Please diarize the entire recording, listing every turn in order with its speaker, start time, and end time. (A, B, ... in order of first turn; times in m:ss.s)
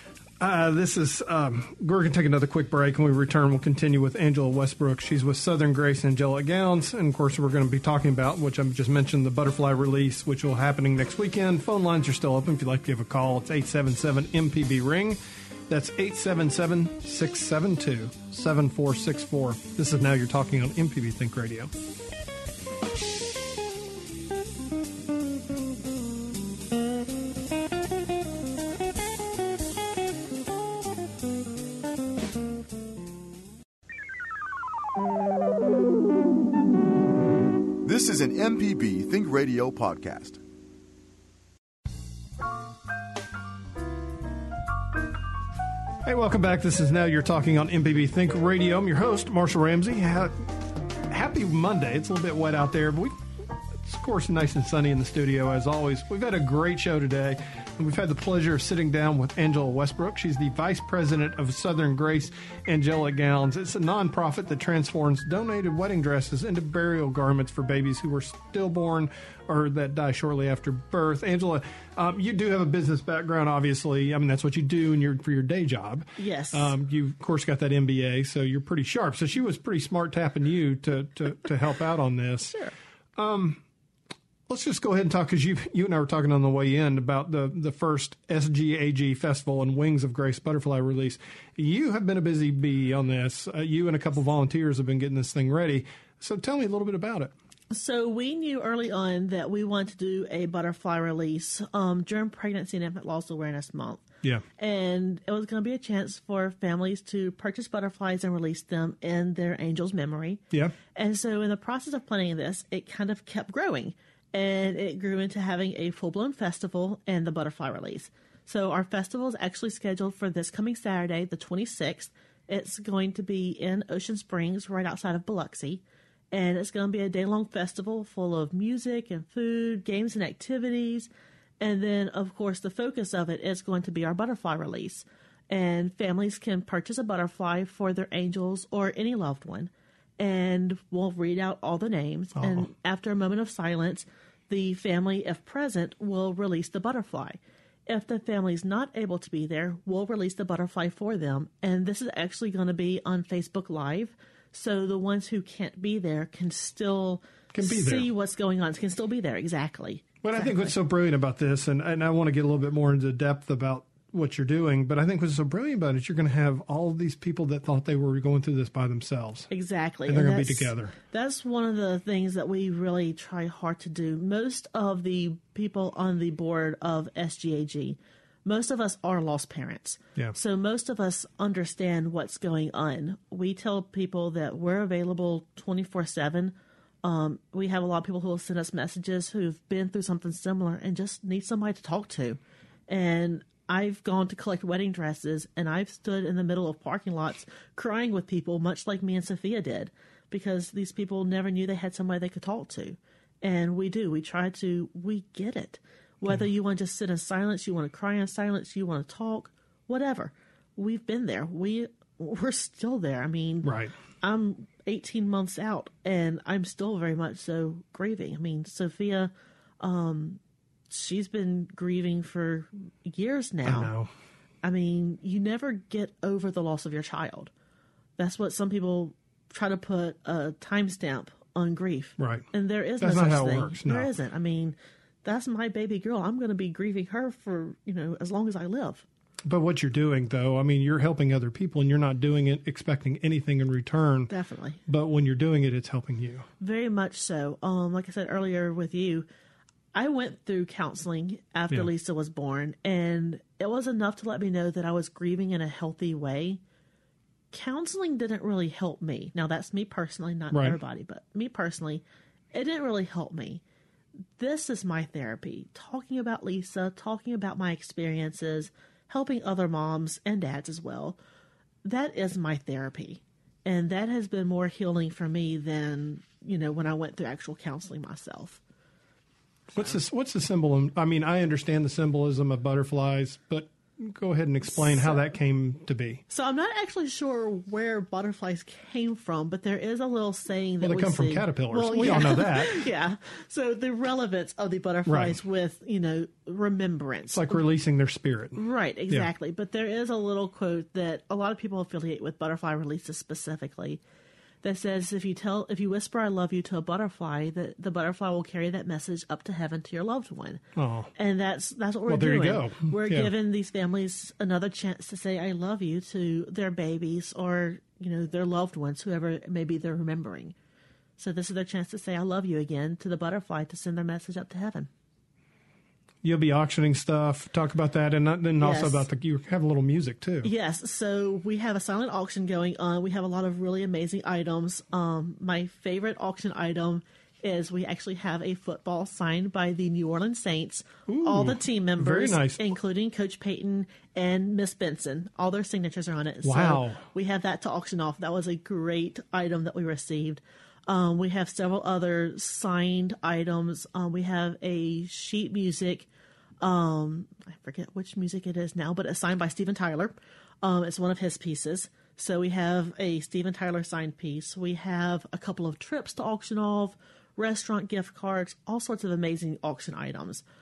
0:00.4-0:21.7 A
0:37.8-0:40.4 B
0:46.0-0:50.5 A
0:51.1-1:22.6 A
1:16.2-1:16.7 C
1:22.4-1:22.7 C
1:23.2-1:23.6 A
1:24.5-1:37.3 A
1:37.7-1:44.0 C
1:44.6-2:11.1 C
2:11.6-2:40.7 C
2:22.4-2:22.7 A
2:37.5-2:38.1 A
2:40.2-2:49.5 A
2:49.5-3:43.9 C
2:50.1-2:50.9 A
3:33.6-3:33.9 A
3:43.6-3:44.1 A
3:44.6-3:47.5 C
3:48.2-3:59.0 C
3:52.2-3:52.5 A
3:53.0-3:54.1 A
3:59.5-4:04.3 A
4:04.3-4:04.8 C
4:04.9-4:06.5 A
4:06.6-4:09.3 C
4:09.9-4:16.6 C
4:17.5-4:23.6 C
4:20.5-4:20.8 A
4:24.4-4:31.2 C
4:31.8-4:38.6 C
4:39.7-4:46.2 A
4:44.7-4:45.2 C
4:46.3-4:57.6 C
4:50.8-4:52.9 A
4:55.1-4:55.4 A
4:57.3-4:59.3 A
4:58.6-5:04.0 C
5:04.6-5:10.6 C
5:10.8-5:11.1 A
5:11.2-5:20.6 C
5:12.1-5:13.3 A
5:21.2-5:24.9 C
5:26.2-5:30.5 A
5:28.6-5:29.1 C
5:30.4-5:56.1 C
5:41.1-5:42.6 A
5:46.4-5:47.0 A
5:56.6-6:10.4 C